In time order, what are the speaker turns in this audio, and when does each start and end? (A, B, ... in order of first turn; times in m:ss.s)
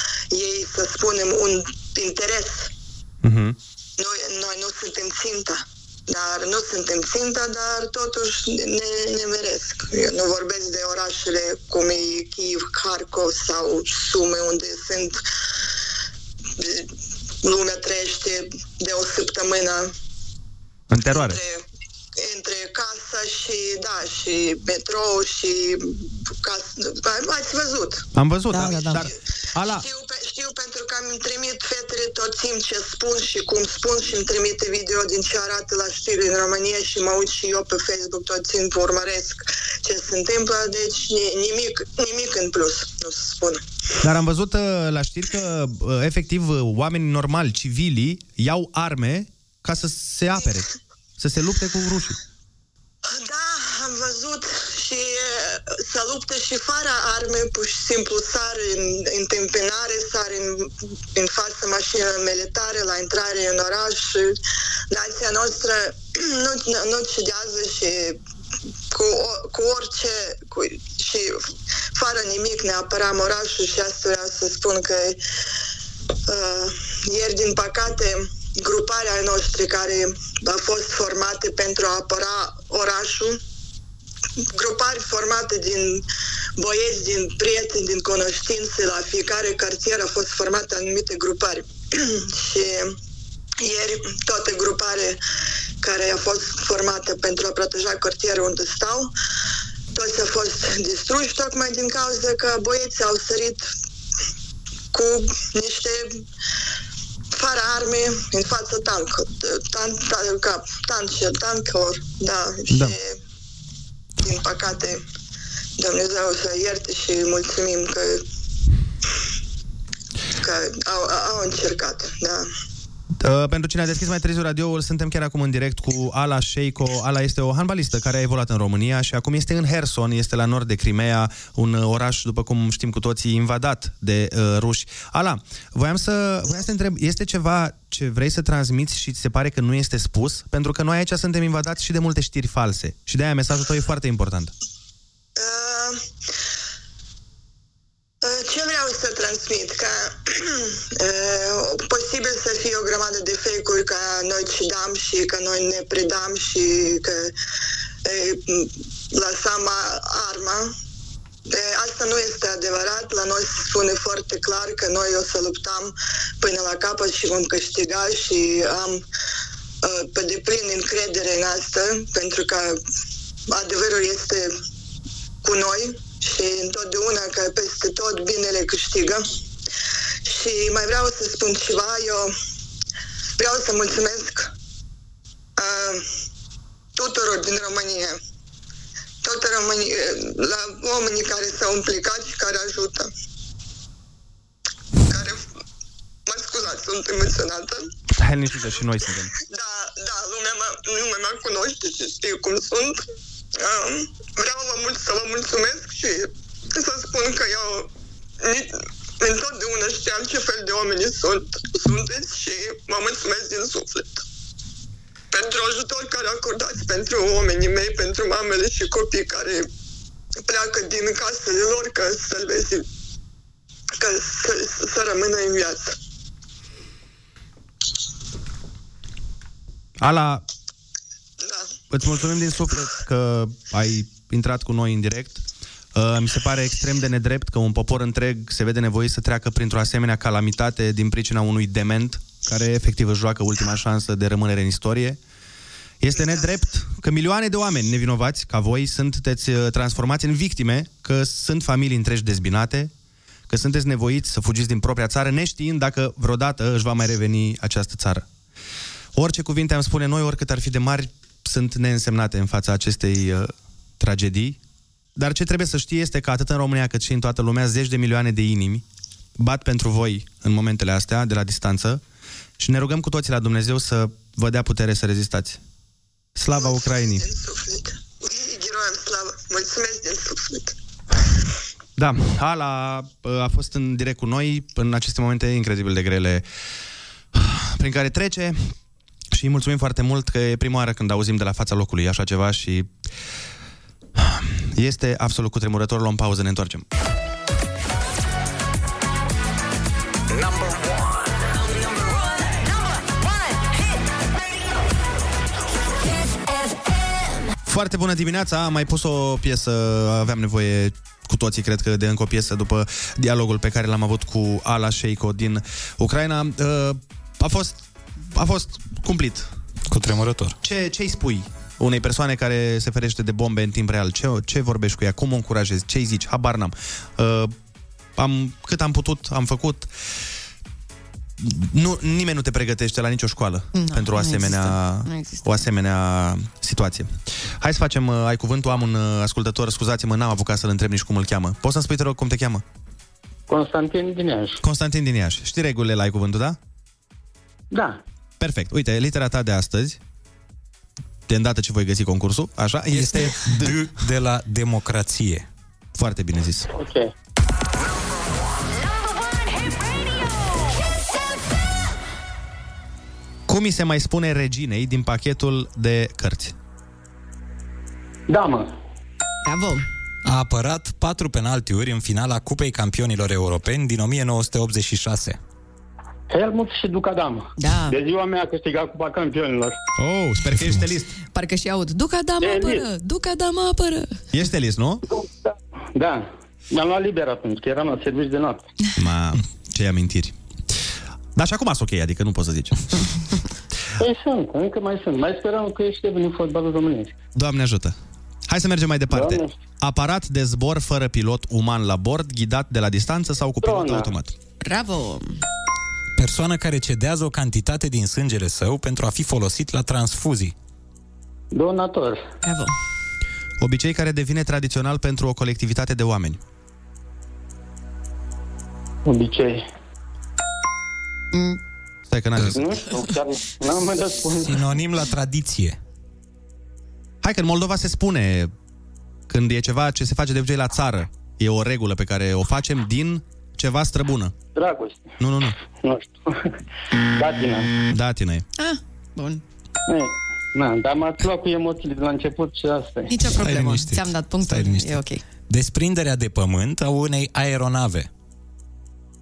0:00.3-0:02.7 A
0:03.2-0:03.6 B
0:04.0-0:15.2 A
0:16.6-0:16.9 A
0:17.4-0:19.9 A
0:20.9-0:21.4 B
0:21.1-0:21.6 A
0:22.2-0:28.1 A
0:28.2-0:29.9 B
0:28.5-0:29.1 C
0:28.8-0:43.6 A
0:44.0-0:52.2 B
0:53.1-1:04.4 A
1:04.9-1:08.2 A
1:08.9-1:15.2 A
1:16.3-1:23.4 A
1:24.5-1:26.0 A
1:26.6-1:33.0 A
1:33.6-1:35.2 A
1:35.8-1:39.1 A
1:39.9-1:43.7 A
1:44.9-1:46.2 A
1:47.3-1:53.2 A
1:54.2-1:55.0 A
1:55.8-1:58.2 A
2:00.4-2:02.5 A
2:03.2-2:24.5 B
2:25.4-2:26.0 A
2:28.2-2:37.3 A
2:38.0-2:40.7 A
2:41.5-2:49.0 A
2:49.8-2:52.8 A
2:53.5-2:54.5 A
2:55.4-2:59.3 A
3:00.2-3:02.3 A
3:03.4-3:04.5 A
3:05.6-3:06.1 A
3:07.0-3:08.2 A
3:09.2-3:13.1 A
3:15.1-3:15.5 A
3:16.3-3:17.9 A
3:18.2-3:19.3 B
3:19.5-3:23.0 A
3:23.6-3:27.9 A
3:28.4-3:34.2 A
3:35.3-3:39.7 A
3:40.4-3:42.8 A
3:44.0-3:46.0 A
3:50.0-3:50.4 B
3:51.4-3:51.7 A
3:51.9-3:55.4 B
3:56.0-4:05.2 B
4:06.0-4:12.9 B
4:13.5-4:18.3 B
4:19.2-4:24.6 B
4:25.2-4:28.8 B
4:29.4-4:32.0 B
4:32.6-4:35.6 B
4:36.4-4:37.2 B
4:36.5-4:40.8 A
4:42.0-4:46.5 B
4:47.3-4:48.7 B
4:49.3-4:52.9 B
4:54.2-4:56.8 B
5:07.6-5:17.8 B
5:18.3-5:19.5 B
5:19.9-5:20.6 D
5:20.6-5:27.5 B
5:28.2-5:29.9 B
5:31.4-5:42.6 B
5:33.8-5:35.6 C
5:43.5-5:44.6 E
5:44.6-5:46.6 B
5:47.7-5:48.0 E
5:48.4-5:50.0 B
5:51.3-5:53.8 B
5:52.9-5:55.5 D
5:56.0-5:56.7 B
5:56.8-5:57.1 E
6:03.5-6:06.6 B
6:08.3-6:08.7 E
6:09.4-6:09.9 C
6:10.2-6:15.4 D
6:16.3-6:19.8 E
6:17.6-6:18.0 C
6:20.0-6:21.2 B
6:21.3-6:24.1 C
6:22.4-6:22.8 E
6:24.3-6:25.0 B
6:25.2-6:28.7 E
6:29.0-6:30.4 B
6:31.4-6:32.8 B
6:34.0-6:37.2 E
6:37.4-6:38.0 B
6:38.5-6:44.4 B
6:39.1-6:39.5 E
6:43.6-6:44.1 E
6:44.6-6:45.4 C
6:46.2-6:50.5 D
6:51.5-6:52.2 E
6:52.4-6:52.8 C
6:53.6-6:56.4 B
6:59.0-6:59.7 E
7:01.3-7:01.6 C
7:02.1-7:02.7 B
7:02.5-7:04.7 E
7:04.4-7:05.8 D
7:07.2-7:08.5 B
7:09.3-7:14.4 B
7:14.6-7:15.2 E
7:15.2-7:15.6 B
7:15.8-7:16.5 E
7:17.1-7:17.7 E
7:17.9-7:18.5 B
7:18.6-7:19.4 C
7:19.9-7:23.1 E
7:23.1-7:25.2 C
7:23.3-7:28.1 D